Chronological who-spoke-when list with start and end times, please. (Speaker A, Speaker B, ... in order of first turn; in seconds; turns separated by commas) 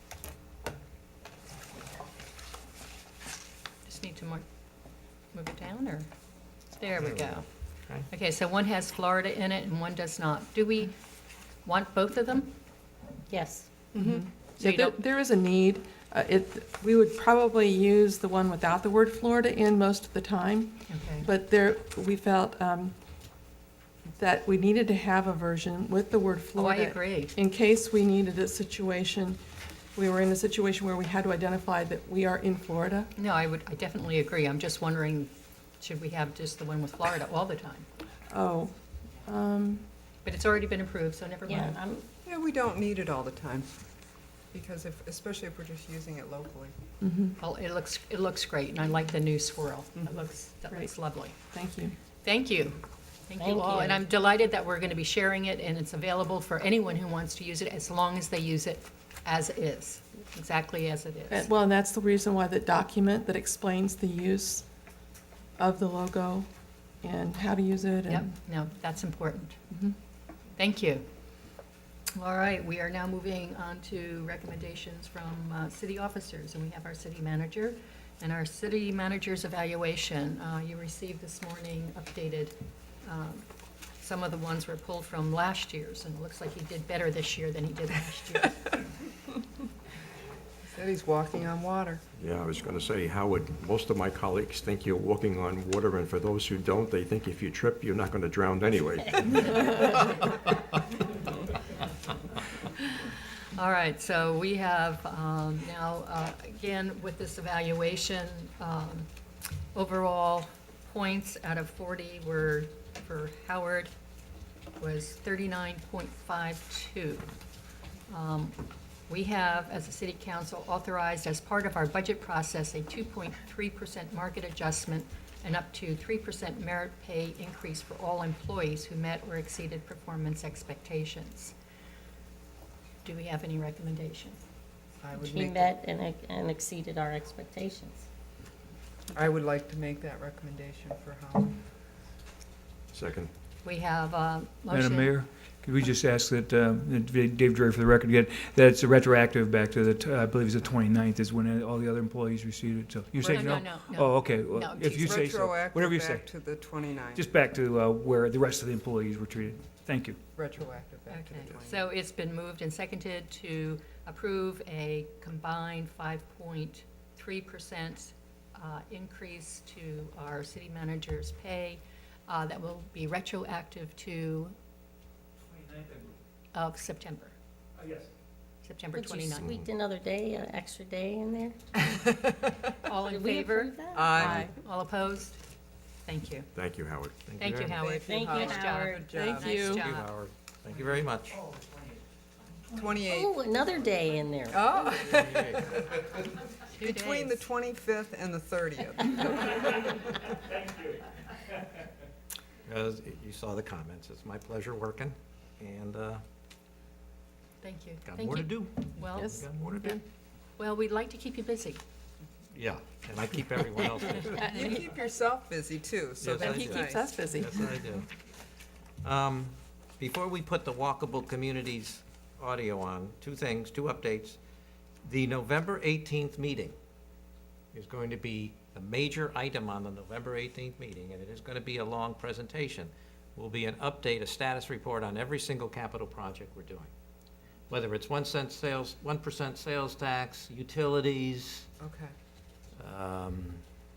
Speaker A: 3.9-4.4, Speaker A: 5.3-6.1, Speaker A: 6.7-7.5, Speaker B: 7.0-8.1, Speaker A: 8.1-11.0, Speaker A: 11.7-12.5, Speaker C: 13.3-13.7, Speaker A: 13.9-15.0, Speaker D: 14.0-23.0, Speaker A: 20.9-21.3, Speaker D: 24.2-29.4, Speaker A: 26.6-27.3, Speaker D: 29.9-33.1, Speaker A: 33.2-37.9, Speaker D: 38.3-39.8, Speaker A: 40.2-41.8, Speaker C: 41.5-42.0, Speaker E: 42.2-43.7, Speaker E: 44.5-46.7, Speaker D: 47.0-47.4, Speaker A: 47.4-51.4, Speaker D: 51.5-52.0, Speaker A: 52.2-61.5, Speaker C: 53.4-54.0, Speaker D: 61.3-64.7, Speaker D: 65.6-66.5, Speaker D: 67.0-68.3, Speaker A: 68.1-69.6, Speaker A: 70.6-71.0, Speaker A: 72.2-83.5, Speaker A: 84.0-88.7, Speaker E: 90.7-92.0, Speaker F: 92.2-99.8, Speaker A: 103.6-109.1, Speaker A: 109.7-113.9, Speaker A: 114.8-117.3, Speaker A: 118.1-118.6, Speaker A: 119.1-131.5, Speaker A: 133.0-134.4, Speaker E: 135.0-135.8, Speaker C: 135.2-138.0, Speaker E: 139.1-141.6, Speaker F: 142.9-143.3, Speaker A: 143.6-145.1, Speaker G: 144.7-156.3, Speaker A: 153.2-155.2, Speaker E: 153.2-153.5, Speaker E: 155.1-157.3, Speaker G: 157.1-160.2, Speaker E: 160.3-161.8, Speaker A: 161.1-174.5, Speaker G: 175.5-176.1, Speaker A: 176.5-177.3, Speaker G: 177.8-178.1, Speaker A: 178.6-179.5, Speaker C: 178.9-181.6, Speaker F: 179.3-179.7, Speaker A: 182.8-185.4, Speaker C: 183.1-184.1, Speaker E: 184.0-184.3, Speaker D: 184.1-184.5, Speaker A: 186.1-186.5, Speaker F: 186.6-187.2, Speaker B: 187.2-187.8, Speaker A: 187.4-190.1, Speaker E: 187.7-189.7, Speaker C: 188.0-189.1, Speaker D: 189.1-189.9, Speaker B: 189.8-191.4, Speaker E: 192.7-193.4, Speaker C: 193.1-194.7, Speaker E: 194.5-196.1, Speaker B: 194.9-195.8, Speaker A: 196.7-197.5, Speaker E: 196.8-200.1, Speaker B: 202.7-206.2, Speaker A: 207.6-209.4, Speaker B: 208.1-210.0, Speaker D: 209.2-209.9, Speaker A: 210.6-211.8, Speaker B: 212.5-214.6, Speaker E: 214.3-217.2, Speaker D: 214.4-214.7, Speaker B: 216.2-218.1, Speaker D: 216.4-217.6, Speaker B: 219.0-224.4, Speaker B: 225.1-226.8, Speaker B: 227.7-236.9, Speaker B: 237.7-241.7, Speaker E: 241.8-242.1, Speaker B: 242.8-243.6